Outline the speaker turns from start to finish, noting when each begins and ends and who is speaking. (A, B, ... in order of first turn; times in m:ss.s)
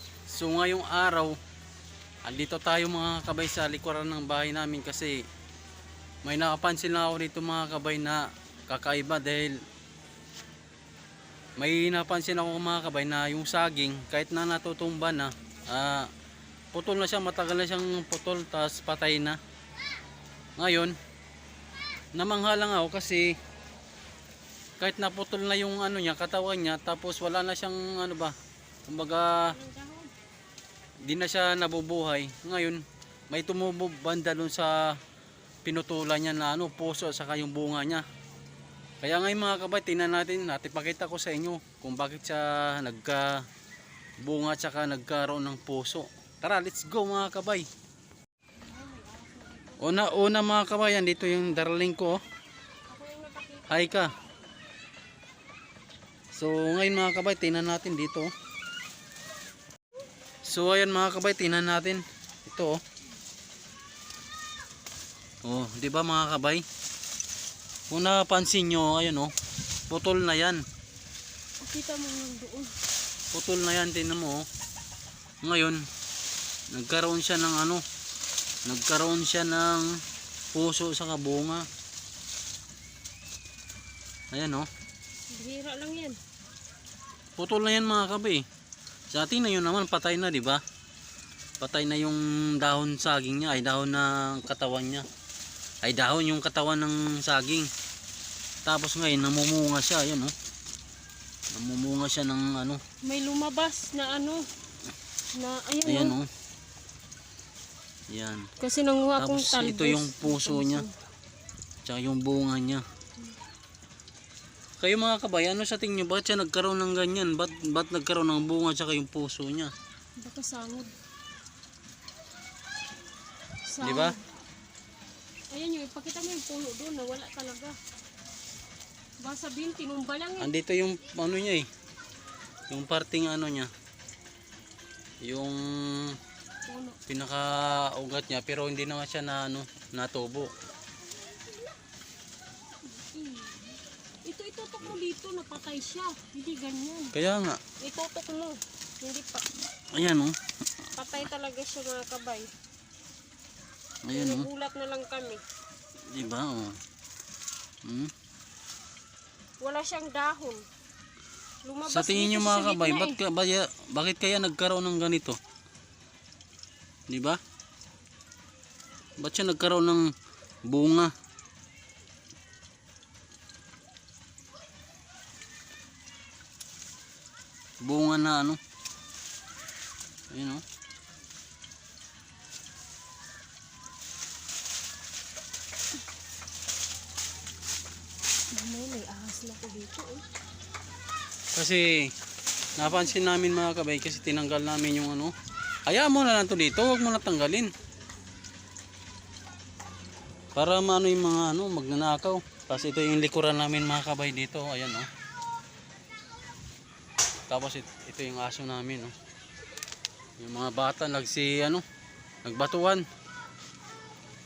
0:00.3-0:01.4 A
0:02.2-0:05.2 A
0:06.2-0:09.6 A
0:11.6-0:16.1 A
0:16.7-0:19.4 A
0:20.6-0:21.0 A
0:22.1-0:23.4 A
0:24.8-0:28.3 A
0:28.9-0:29.5 A
0:29.5-0:30.1 B
0:31.0-0:35.0 A
0:35.6-0:38.0 A
0:39.0-0:43.4 A
0:44.2-0:47.7 A
0:48.6-0:50.2 B
0:49.8-0:52.2 A
0:52.9-0:53.7 B
0:53.7-0:54.1 A
0:56.3-0:58.3 A
1:00.4-1:02.8 A
1:05.4-1:06.6 A
1:07.9-1:09.3 A
1:09.9-1:10.6 A
1:11.6-1:12.7 B
1:13.3-1:14.4 A
1:15.4-1:15.9 A
1:16.7-1:17.8 A
1:18.6-1:20.0 A
1:20.5-1:21.7 A
1:24.3-1:24.7 A
1:25.3-1:26.2 B
1:27.4-1:28.4 A
1:29.1-1:30.6 A
1:31.6-1:35.0 A
1:35.8-1:37.7 A
1:38.6-1:40.3 A
1:41.5-1:42.8 A
1:43.0-1:44.5 B
1:45.3-1:46.1 B
1:45.8-1:46.3 A
1:48.1-1:48.5 A
1:48.6-1:50.9 B
1:49.2-1:50.8 A
1:51.8-1:52.8 A
1:54.8-1:59.7 A
2:00.2-2:00.9 B
2:03.7-2:04.2 B
2:03.8-2:04.1 A
2:05.5-2:07.8 B
2:09.2-2:10.5 B
2:10.4-2:11.7 A
2:12.7-2:13.7 A
2:15.2-2:16.2 A
2:16.6-2:17.0 B
2:17.1-2:20.5 A
2:22.9-2:27.1 B
2:27.1-2:27.6 A
2:27.8-2:29.4 B
2:29.9-2:30.3 A
2:30.9-2:32.5 B
2:34.0-2:34.5 A
2:34.1-2:35.4 B
2:36.1-2:36.8 A
2:37.8-2:38.1 A
2:39.6-2:40.6 B
2:41.6-2:43.2 B
2:41.9-2:45.4 A
2:47.1-2:47.4 A
2:49.2-2:50.1 A
2:50.7-2:51.1 A
2:57.8-2:58.6 A
3:00.3-3:00.6 A
3:08.5-3:10.2 B
3:11.5-3:12.1 A
3:12.8-3:15.3 A
3:15.8-3:17.7 A
3:20.5-3:25.1 A
3:27.5-3:29.1 A
3:30.4-3:31.8 A
3:32.4-3:33.0 A